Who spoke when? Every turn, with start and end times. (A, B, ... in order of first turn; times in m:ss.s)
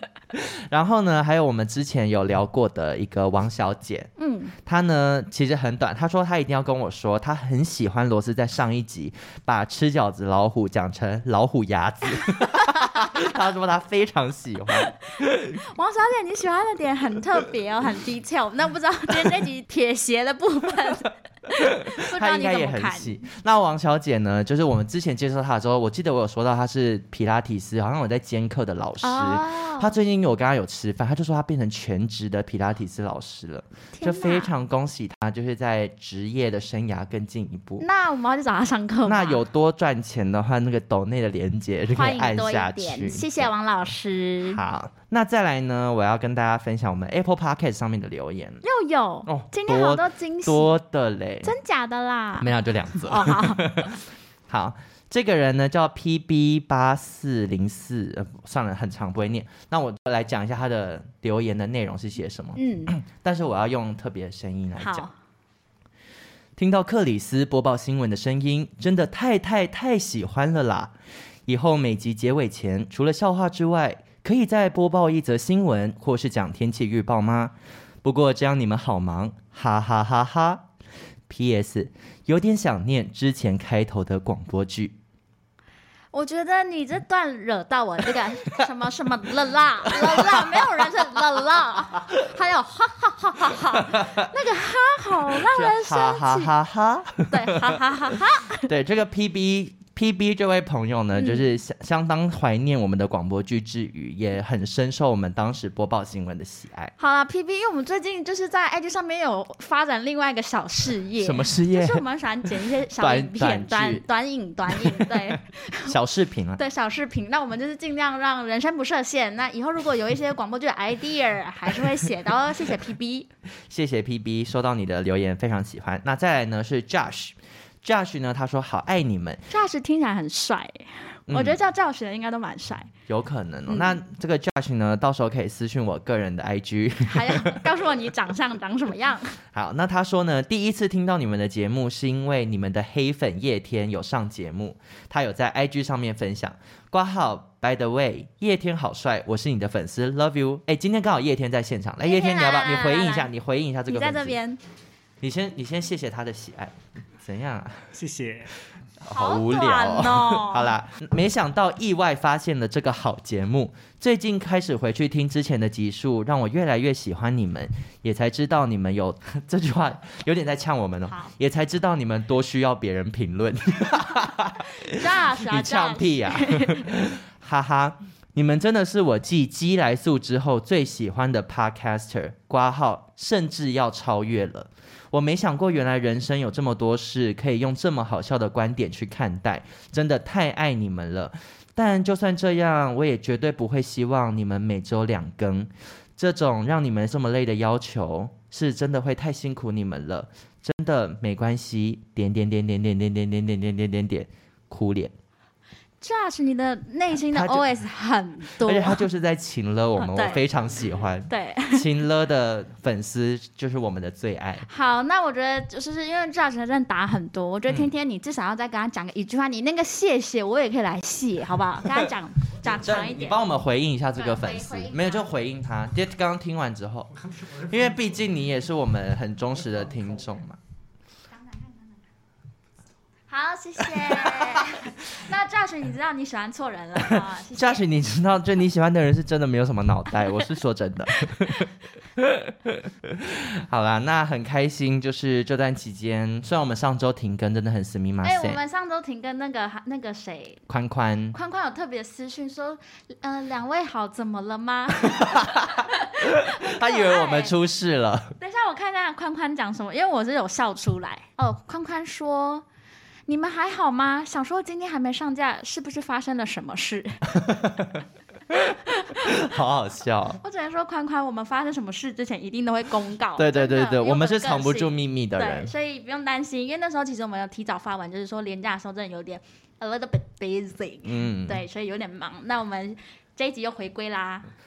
0:00.3-0:04.1 A
0:04.2-0:04.5 B
0:04.6-0:15.6 A
0:12.5-0:13.3 B
0:14.8-0:23.3 B
0:21.9-0:37.8 A
0:29.0-0:30.0 B
0:34.0-0:34.5 B
0:37.8-0:39.4 B
0:39.0-0:43.5 A
0:41.9-0:44.6 B
0:44.4-0:48.6 A
0:48.6-0:50.8 B
0:49.3-0:51.5 A
0:51.4-0:53.9 B
0:52.4-1:05.1 A
1:02.6-1:03.0 B
1:04.8-1:05.1 B
1:06.6-1:10.9 A
1:11.5-1:20.7 A
1:21.3-1:25.0 A
1:26.1-1:36.5 B
1:29.9-1:30.6 A
1:33.8-1:34.3 A
1:35.5-1:37.8 A
1:37.3-1:38.7 B
1:38.6-1:46.9 A
1:41.1-1:41.4 B
1:47.0-1:56.0 B
1:51.2-1:52.0 A
1:53.0-1:54.0 A
1:54.7-1:56.6 A
1:56.6-2:03.3 B
2:03.7-2:09.5 A
2:09.5-2:12.9 B
2:11.3-2:11.6 A
2:13.1-2:17.6 A
2:13.7-2:14.0 B
2:17.0-2:19.4 B
2:19.5-2:34.4 A
2:32.0-2:33.3 B
2:33.9-2:34.6 B
2:35.2-2:37.9 A
2:37.9-2:38.6 C
2:39.1-3:25.1 A
2:39.1-2:40.7 B
2:51.1-2:51.3 B
2:54.7-2:56.9 B
3:26.0-3:29.0 B
3:27.1-3:27.7 A
3:28.5-3:34.7 A
3:30.0-3:30.4 B
3:31.3-3:31.9 B
3:34.6-3:43.4 B
3:42.6-3:50.6 A
3:44.2-3:45.3 B
3:47.1-3:48.3 C
3:49.6-3:50.4 C
3:51.3-3:51.9 B
3:53.3-3:57.9 B
3:54.0-3:54.7 A
3:57.1-4:08.6 A
4:01.4-4:01.7 B
4:08.2-4:10.6 B
4:10.7-4:11.4 A
4:11.3-4:17.6 B
4:15.2-4:18.4 A
4:18.4-4:22.6 B
4:23.3-4:27.4 B
4:27.3-4:30.4 A
4:28.9-4:29.5 B
4:30.4-4:44.5 B
4:33.4-4:35.7 A
4:41.0-4:41.6 A